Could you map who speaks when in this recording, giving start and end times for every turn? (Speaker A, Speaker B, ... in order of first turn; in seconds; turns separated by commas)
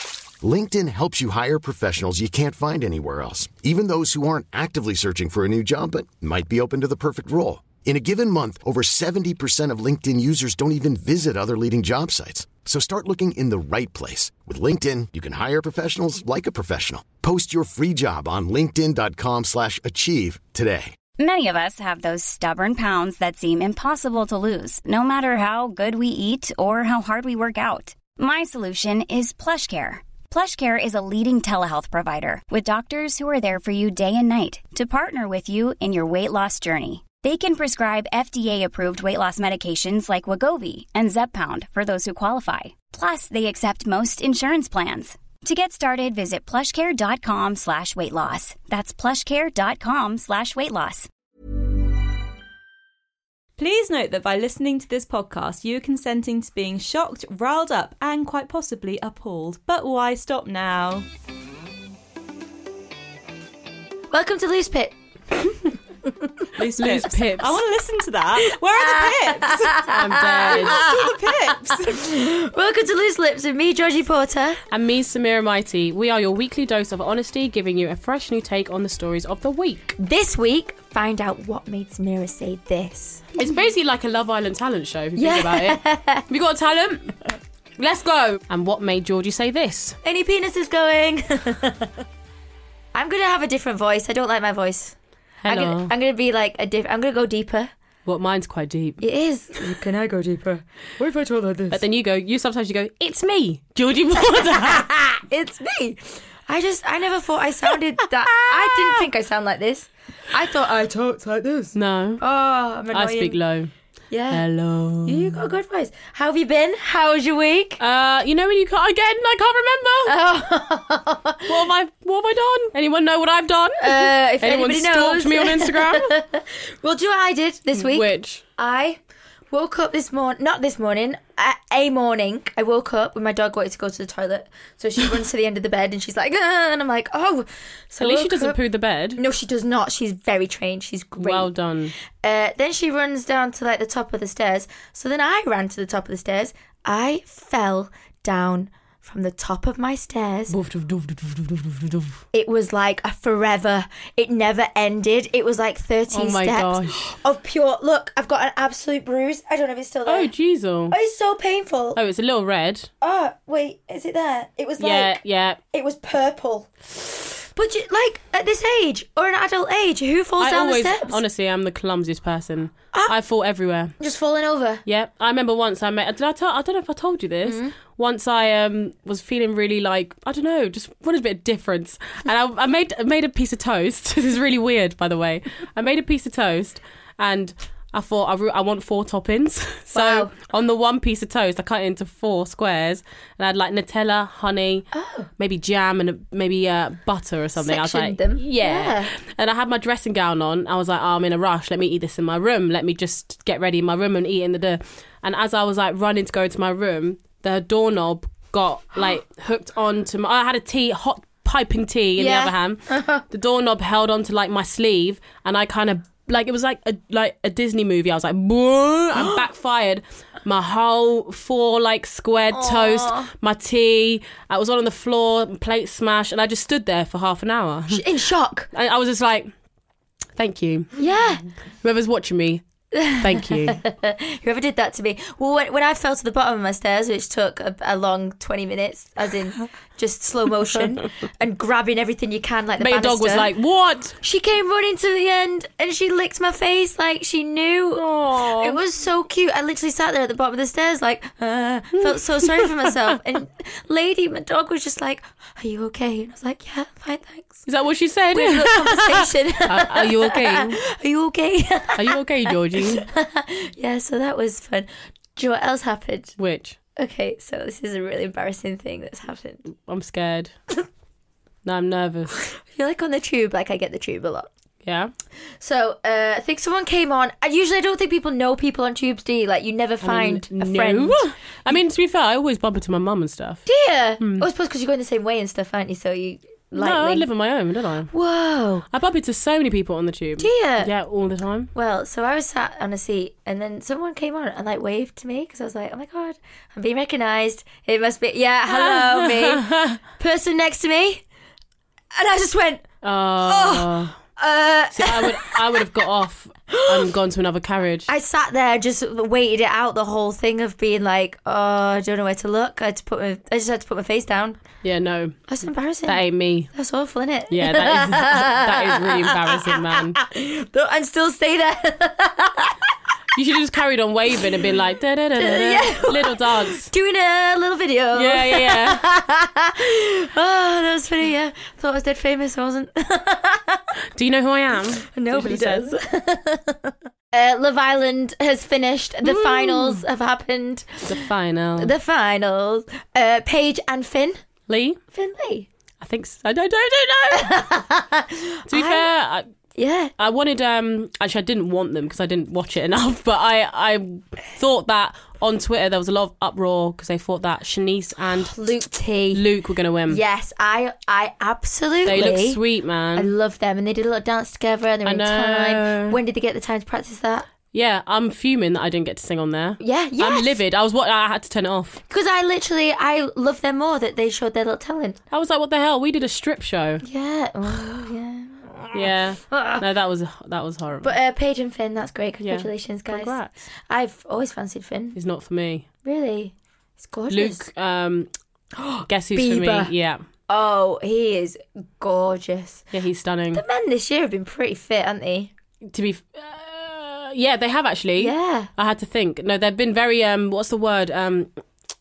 Speaker A: 0.4-20.9, Speaker B: 21.2-51.1, Speaker C: 53.6-61.1, Speaker D: 64.1-64.9, Speaker C: 66.6-72.0, Speaker E: 66.8-67.6, Speaker D: 68.8-71.0, Speaker E: 69.9-70.8, Speaker D: 71.7-74.6, Speaker E: 74.7-79.9, Speaker D: 80.0-83.3, Speaker E: 83.4-87.2, Speaker D: 85.2-86.2, Speaker E: 87.8-90.0, Speaker D: 90.0-91.9, Speaker D: 92.9-95.0, Speaker E: 95.4-95.9, Speaker D: 95.5-97.7, Speaker E: 98.1-99.0, Speaker D: 99.0-101.8, Speaker E: 101.7-105.2, Speaker D: 104.2-113.4, Speaker E: 108.3-108.9, Speaker E: 111.8-112.2, Speaker E: 112.9-113.7, Speaker D: 114.1-114.4, Speaker E: 114.3-115.4, Speaker D: 115.0-117.8, Speaker E: 117.8-120.1, Speaker D: 120.1-121.5, Speaker E: 121.5-126.2, Speaker D: 123.8-129.0, Speaker E: 127.8-128.4, Speaker D: 129.5-138.6, Speaker E: 138.0-139.2, Speaker D: 139.2-141.5, Speaker E: 141.2-141.9, Speaker D: 142.2-150.5, Speaker E: 150.5-152.2, Speaker D: 152.3-160.3, Speaker E: 156.1-157.2, Speaker E: 160.1-160.9, Speaker D: 160.9-162.0, Speaker E: 162.0-162.9, Speaker D: 163.0-165.2, Speaker E: 164.8-165.6, Speaker D: 165.7-171.2, Speaker E: 170.4-173.9, Speaker D: 174.0-174.8, Speaker E: 174.9-228.0, Speaker D: 177.4-177.7, Speaker D: 189.9-190.3, Speaker D: 194.9-195.3, Speaker D: 197.6-199.1, Speaker D: 212.2-213.2, Speaker D: 222.5-223.3, Speaker D: 227.9-228.7, Speaker E: 228.7-229.5, Speaker E: 230.4-231.0, Speaker D: 231.0-231.4, Speaker E: 231.8-232.6, Speaker D: 232.9-243.5, Speaker E: 233.2-233.8, Speaker E: 242.8-244.2, Speaker D: 244.2-257.7, Speaker E: 248.0-248.8, Speaker E: 257.7-260.8, Speaker D: 258.3-262.2, Speaker E: 262.0-263.1, Speaker D: 262.8-266.3, Speaker E: 266.4-266.8, Speaker D: 267.0-269.6, Speaker E: 269.8-270.5, Speaker E: 271.6-272.4, Speaker D: 272.6-274.5, Speaker E: 274.9-275.1, Speaker D: 275.6-281.3, Speaker E: 280.0-283.6, Speaker D: 283.7-287.3, Speaker E: 284.2-284.5, Speaker E: 286.8-288.1, Speaker D: 288.1-288.9, Speaker E: 288.9-291.7, Speaker D: 290.4-290.9, Speaker D: 291.7-301.2, Speaker E: 298.7-300.0, Speaker D: 302.1-302.9, Speaker E: 303.0-304.1, Speaker D: 303.4-305.7, Speaker E: 304.9-308.1, Speaker D: 306.7-307.1, Speaker D: 308.1-314.6, Speaker E: 314.8-316.7, Speaker D: 315.5-322.8, Speaker E: 317.5-320.2, Speaker E: 323.3-326.9, Speaker D: 325.4-333.8, Speaker E: 328.1-329.0, Speaker E: 334.2-335.9, Speaker D: 335.1-341.1, Speaker E: 339.2-340.0, Speaker E: 341.1-341.9, Speaker D: 341.8-344.4, Speaker E: 344.7-345.0, Speaker D: 345.1-345.7, Speaker E: 346.0-347.7, Speaker D: 347.3-349.1, Speaker E: 348.7-349.5, Speaker D: 349.8-350.1, Speaker E: 350.2-358.6, Speaker D: 358.5-359.4, Speaker E: 359.3-360.2, Speaker D: 360.1-362.6, Speaker E: 362.1-363.3, Speaker D: 363.2-367.5, Speaker E: 365.1-366.2, Speaker E: 367.7-372.0, Speaker D: 369.8-370.6, Speaker D: 372.1-375.2, Speaker E: 375.3-377.0, Speaker D: 377.0-379.8, Speaker E: 378.9-381.1, Speaker D: 381.0-385.2, Speaker E: 382.4-383.7, Speaker E: 385.1-385.9, Speaker D: 386.1-387.6, Speaker E: 387.3-388.3, Speaker D: 388.8-389.9, Speaker E: 389.1-390.2, Speaker D: 390.5-392.9, Speaker E: 392.9-393.6, Speaker D: 393.5-395.5, Speaker E: 395.9-401.5, Speaker D: 398.2-398.7